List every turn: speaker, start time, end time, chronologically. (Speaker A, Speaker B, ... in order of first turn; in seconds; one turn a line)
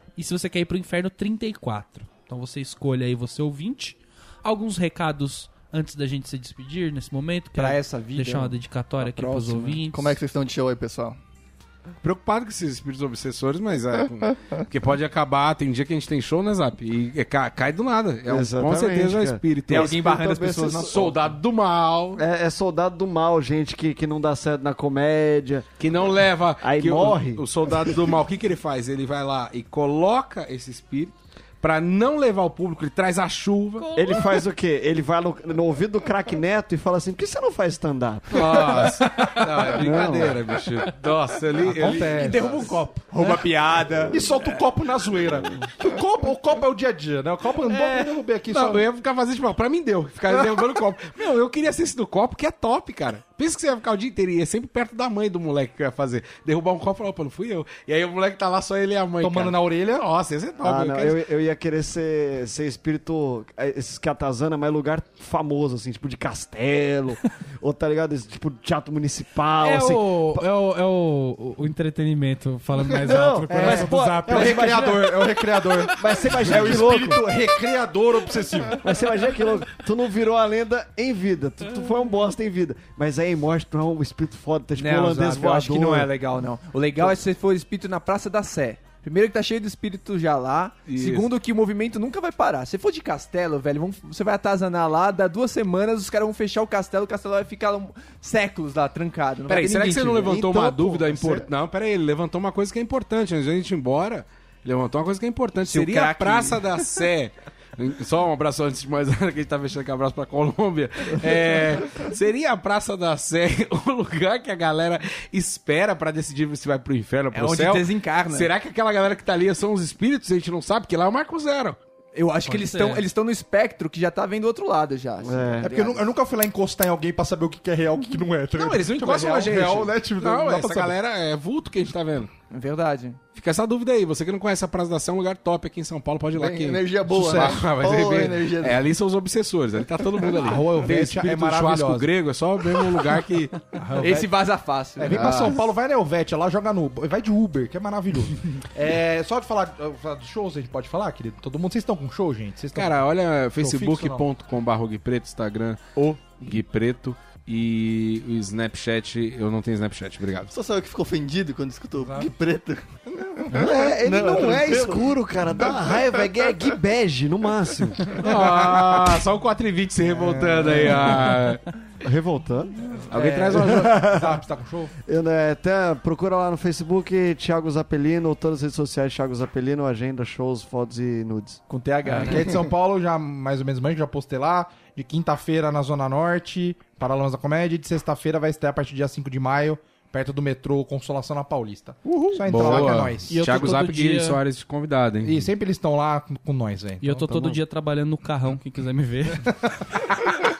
Speaker A: 0.2-10.2
Speaker B: 7.5-9.8
Speaker C: 9.9-11.2
Speaker D: 12.0-20.1
Speaker E: 18.3-21.1
Speaker B: 19.7-21.3
Speaker D: 20.8-22.2
Speaker E: 22.2-25.7
Speaker D: 25.8-33.9
Speaker E: 26.6-28.1
Speaker A: 33.8-34.3
Speaker E: 34.0-38.9
Speaker D: 38.3-42.5
Speaker A: 38.8-39.7
Speaker E: 39.7-40.4
Speaker F: 41.7-42.8
Speaker A: 42.0-43.4
Speaker B: 43.1-44.5
Speaker F: 44.1-48.9
Speaker A: 47.7-48.1
Speaker D: 48.5-61.2
Speaker F: 50.3-50.6
Speaker F: 59.2-60.1
Speaker E: 60.6-70.5
Speaker A: 69.6-75.1
Speaker E: 72.8-74.8
Speaker F: 73.5-78.8
Speaker E: 75.9-77.2
Speaker E: 78.8-86.1
Speaker B: 84.8-100.4
Speaker D: 90.9-91.3
Speaker D: 99.5-121.8
Speaker E: 99.7-101.5
Speaker B: 105.6-106.6
Speaker B: 117.3-118.5
Speaker B: 122.1-126.0
Speaker A: 122.5-123.0
Speaker E: 125.2-125.7
Speaker F: 125.6-131.0
Speaker D: 128.5-132.3
Speaker B: 132.5-133.2
Speaker D: 133.3-143.6
Speaker C: 136.4-138.9
Speaker F: 137.1-137.6
Speaker F: 140.3-142.1
Speaker F: 143.7-144.3
Speaker B: 144.0-145.5
Speaker F: 145.0-154.2
Speaker D: 145.1-145.6
Speaker D: 152.7-160.5
Speaker B: 156.0-156.2
Speaker C: 160.5-166.3
Speaker F: 162.0-162.3
Speaker E: 163.5-168.2
Speaker D: 168.2-171.6
Speaker F: 168.5-168.8
Speaker F: 170.0-171.6
Speaker E: 172.0-172.9
Speaker D: 173.1-174.2
Speaker F: 173.3-174.9
Speaker E: 173.5-174.4
Speaker E: 175.1-181.6
Speaker F: 181.8-193.4
Speaker B: 182.0-182.4
Speaker B: 192.1-192.7
Speaker D: 192.5-195.5
Speaker A: 193.3-194.4
Speaker F: 195.2-197.6
Speaker A: 197.0-199.5
Speaker F: 199.4-200.2